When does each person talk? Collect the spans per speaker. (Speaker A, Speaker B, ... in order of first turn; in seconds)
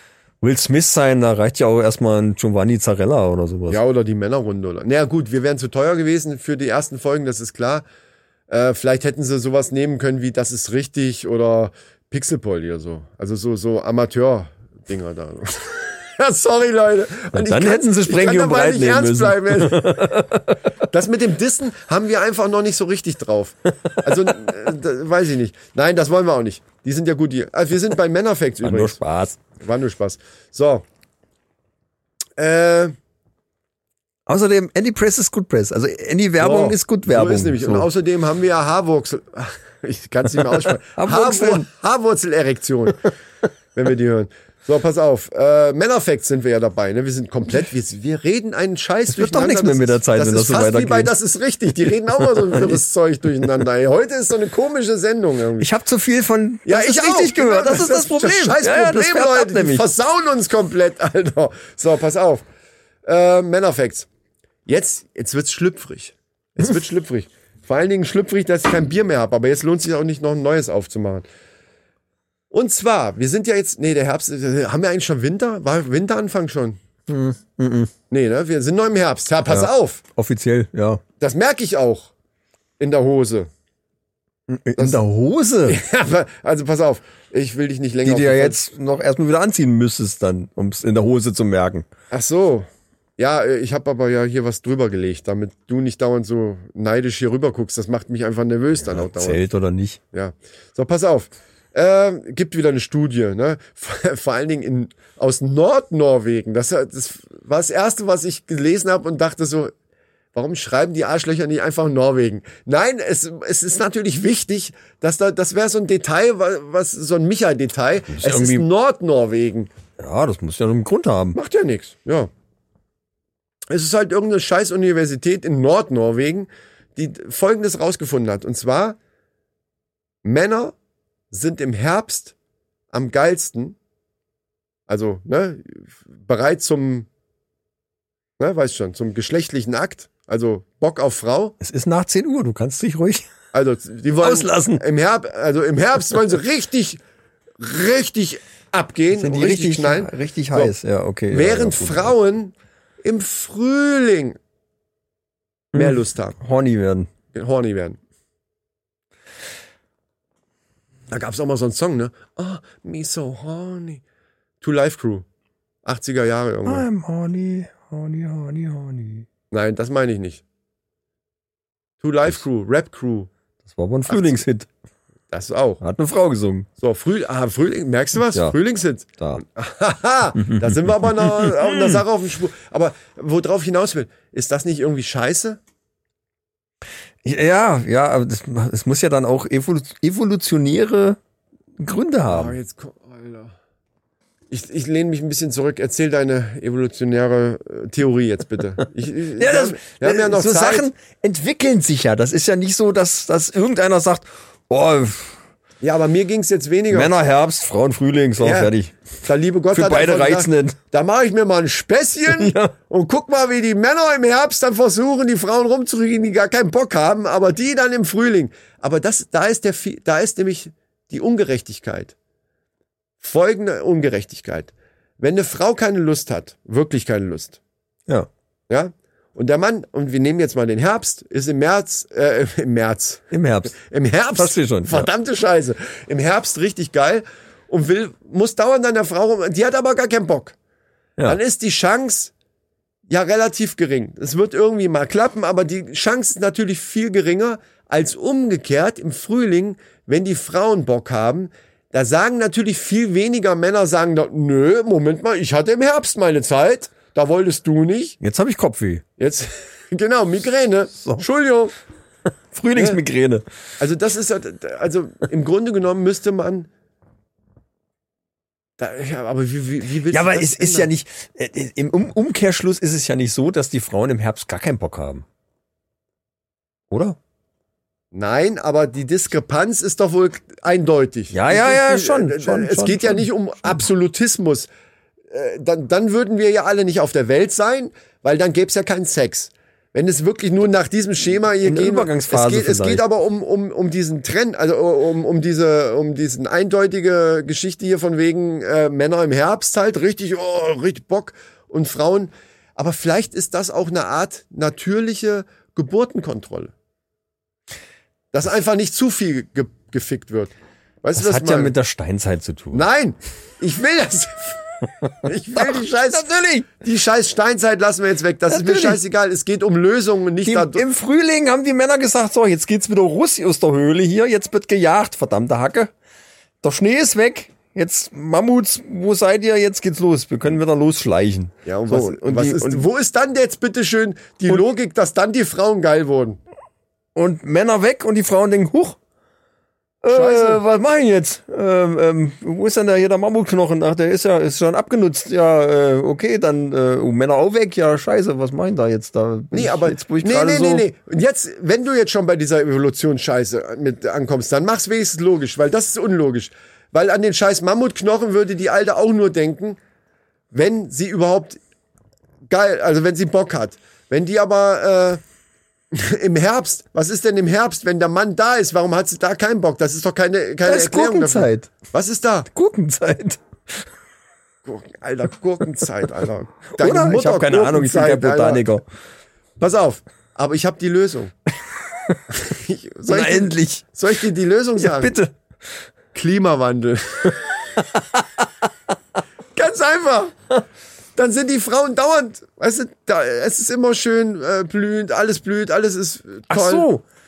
Speaker A: 0.4-3.8, 17.3-20.6, 28.6-29.4, 34.3-37.9, 40.9-41.7, 49.1-51.1, 52.5-52.8, 55.6-59.9, 77.1-77.9, 79.5-81.0, 84.5-85.8, 88.0-91.9, 98.9-100.0, 118.1-118.7, 120.0-121.4, 141.6-143.3, 144.2-144.8, 149.1-152.1, 155.7-157.1, 166.7-169.3, 173.7-174.7, 175.8-176.7, 181.4-181.9, 187.2-191.2, 191.8-192.6, 199.4-205.4, 206.9-208.9, 209.7-210.8, 212.3-212.8, 233.3-233.8, 234.3-235.1, 258.2-259.0, 261.0-261.2, 262.5-263.4, 270.1-275.2, 276.9-277.2, 281.3-283.3, 291.6-293.0, 311.1-312.9, 315.0-316.7, 318.5-319.0, 320.4-325.9, 326.6-332.9, 337.1-339.0, 340.0-350.9, 370.6-371.7, 372.5-373.9, 376.7-378.8, 383.1-383.9, 384.8-385.3, 387.8-388.5, 396.5-397.0
Speaker B: 3.7-7.9, 8.5-20.2, 20.9-29.0, 29.5-30.9, 32.4-32.9, 36.4-43.0, 43.8-55.7, 56.7-62.4, 63.0-64.1, 64.7-71.3, 72.5-76.8, 78.1-80.0, 81.2-82.1, 82.8-83.5, 85.7-88.6, 92.1-99.4, 100.1-109.7, 110.3-119.7, 121.3-122.3, 123.7-129.0, 130.2-130.8, 131.3-132.3, 132.9-133.8, 134.9-137.1, 138.4-141.6, 143.5-147.0, 147.6-150.7, 151.3-154.4, 155.7-156.4, 157.3-158.0, 161.1-164.0, 164.6-165.3, 165.8-166.9, 169.5-170.4, 172.0-173.3, 174.1-174.4, 175.3-175.8, 176.8-185.6, 192.3-193.6, 194.5-200.9, 205.8-207.1, 208.4-222.2, 223.2-227.6, 228.7-240.6, 241.3-242.3, 243.1-258.2, 259.2-261.7, 262.8-263.0, 263.8-266.7, 268.8-270.9, 278.1-284.7, 285.3-306.7, 308.3-311.7, 312.7-314.6, 315.2-320.8, 331.6-336.4, 340.1-340.6, 349.5-359.8, 360.5-361.6, 362.5-365.2, 365.9-372.5, 374.6-378.6, 379.6-381.3, 382.3-385.1, 386.1-387.5, 389.6-390.4, 391.2-396.9